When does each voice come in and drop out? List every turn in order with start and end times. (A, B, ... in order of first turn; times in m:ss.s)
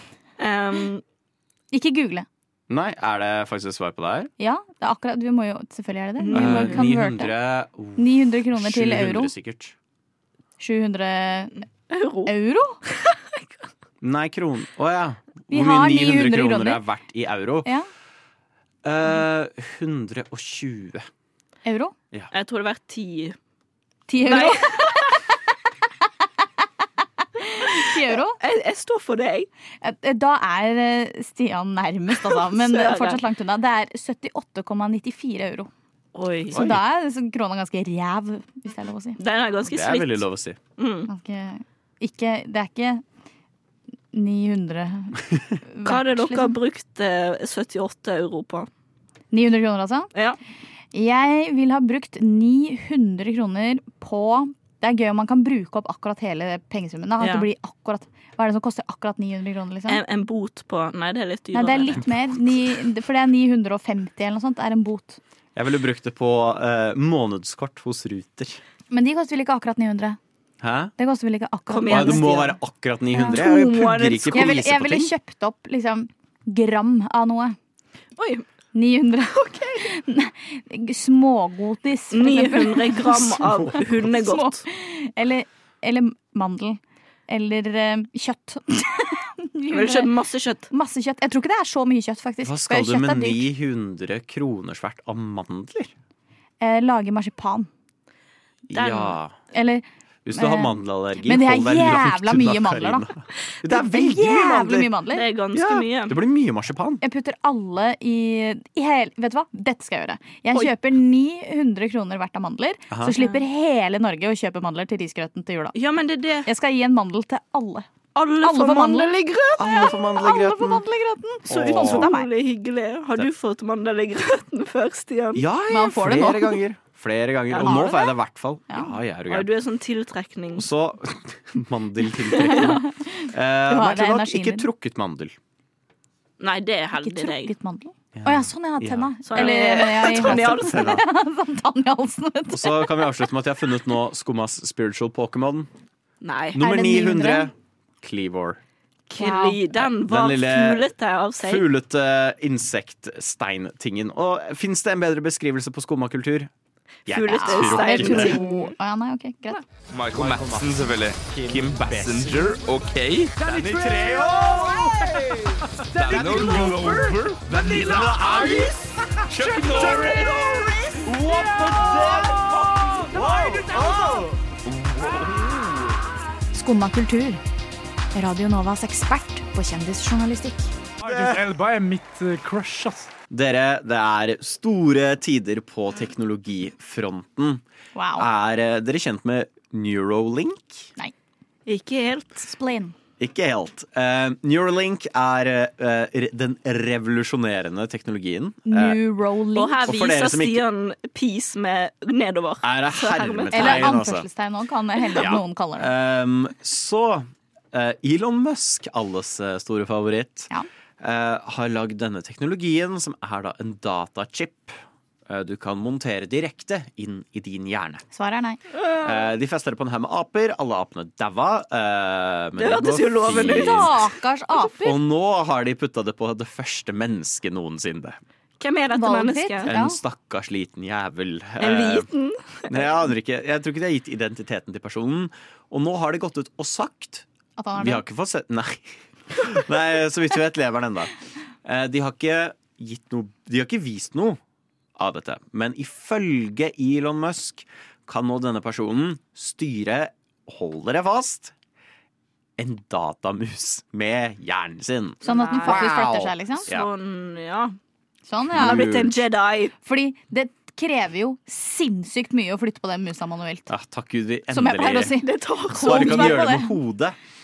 0:00.4-0:01.0 A
0:01.7-0:02.3 B
0:02.7-0:04.3 C
0:04.4-0:07.3 B
0:06.2-0:06.8 A
0:06.3-0:09.8 C
0:08.0-0:09.3 B
0:10.6-0:11.5 B
0:11.9-0:12.3 A
0:12.3-0:12.8 B
0:12.9-0:13.4 A
0:14.0-0:17.7 C
0:15.5-0:16.8 B
0:18.8-0:21.1 C
0:21.6-0:21.9 B
0:22.3-0:23.4 A
0:24.1-0:25.0 B
0:24.2-0:25.2 A
0:27.4-0:28.4 B
0:27.7-0:29.5 A
0:29.8-0:35.7 B
0:32.2-0:33.2 A
0:36.2-0:36.6 A
0:36.5-0:36.8 C
0:36.5-0:39.2 B
0:39.2-0:40.2 A
0:39.7-0:40.6 C
0:40.8-0:41.1 A
0:41.1-0:43.0 B
0:44.1-0:46.6 B
0:45.8-0:48.7 A
0:49.3-0:50.1 B
0:50.1-0:50.4 A
0:50.9-1:00.0 B
0:57.2-0:57.5 A
0:59.9-1:02.0 A
1:01.6-1:05.2 B
1:05.6-1:08.6 C
1:08.9-1:10.2 B
1:10.6-1:10.9 C
1:11.0-1:12.5 B
1:11.7-1:12.5 A
1:11.9-1:15.1 C
1:13.2-1:14.6 A
1:14.3-1:17.6 B
1:18.2-1:18.4 A
1:18.7-1:30.1 B
1:22.1-1:24.6 A
1:29.7-1:30.7 A
1:30.7-1:33.4 B
1:32.4-1:35.9 C
1:36.6-1:37.7 B
1:38.7-1:39.4 C
1:38.7-1:39.2 A
1:39.5-1:43.1 B
1:40.2-1:44.9 C
1:43.7-1:45.2 B
1:45.1-1:46.2 A
1:45.5-1:47.0 C
1:47.0-1:55.8 B
1:52.9-1:53.2 C
1:55.7-1:56.5 A
1:56.4-1:57.9 B
1:58.2-1:59.9 A
1:58.4-2:02.3 B
1:59.6-2:00.8 C
2:01.5-2:02.1 C
2:01.5-2:05.4 A
2:05.4-2:09.5 C
2:05.7-2:06.6 B
2:07.5-2:07.9 A
2:07.6-2:08.1 B
2:08.7-2:08.9 B
2:09.3-2:10.7 A
2:10.6-2:15.4 C
2:12.4-2:12.7 A
2:12.5-2:14.7 B
2:16.4-2:17.5 A
2:17.0-2:23.2 B
2:18.2-2:21.0 C
2:19.3-2:20.9 A
2:22.5-2:25.7 C
2:26.2-2:26.6 A
2:26.5-2:28.6 C
2:26.6-2:27.5 B
2:29.1-2:31.6 A
2:29.2-2:29.6 B
2:30.0-2:30.8 C
2:31.4-2:36.5 C
2:37.1-2:38.4 C
2:37.1-2:38.7 A
2:37.3-2:39.6 B
2:39.9-2:43.4 D
2:40.1-2:42.7 C
2:43.4-2:48.7 E
2:43.4-2:45.5 C
2:46.0-2:48.1 D
2:46.0-2:54.3 C
2:49.5-2:50.3 E
2:49.7-2:50.0 D
2:51.1-2:54.3 E
2:54.9-2:55.4 D
2:56.5-2:57.4 B
2:58.1-3:00.7 B
3:01.0-3:03.1 E
3:01.0-3:01.4 C
3:03.3-3:07.6 C
3:08.0-3:08.3 B
3:08.2-3:10.9 C
3:11.7-3:12.5 A
3:12.4-3:12.9 B
3:13.2-3:19.0 C
3:18.7-3:19.8 B
3:19.6-3:23.9 A
3:19.8-3:20.6 C
3:22.6-3:24.3 C
3:23.5-3:25.9 B
3:25.2-3:34.8 C
3:35.3-3:38.0 C
3:38.1-3:38.6 B
3:39.0-3:43.9 C
3:42.6-3:44.0 A
3:43.3-3:45.0 B
3:44.8-3:48.2 C
3:48.6-3:49.7 A
3:49.0-3:50.0 B
3:49.7-3:52.1 C
3:51.6-3:53.0 A
3:52.7-3:57.3 C
3:57.6-3:58.0 B
3:57.8-4:01.1 C
4:01.6-4:04.4 C
4:05.0-4:11.5 C
4:12.6-4:16.9 C
4:15.2-4:16.7 B
4:15.2-4:16.0 A
4:16.7-4:17.8 A
4:18.3-4:18.8 B
4:18.5-4:19.2 C
4:18.6-4:19.7 A
4:19.8-4:23.7 B
4:23.7-4:25.1 C
4:24.5-4:26.7 B
4:25.2-4:26.5 A
4:25.8-4:27.2 C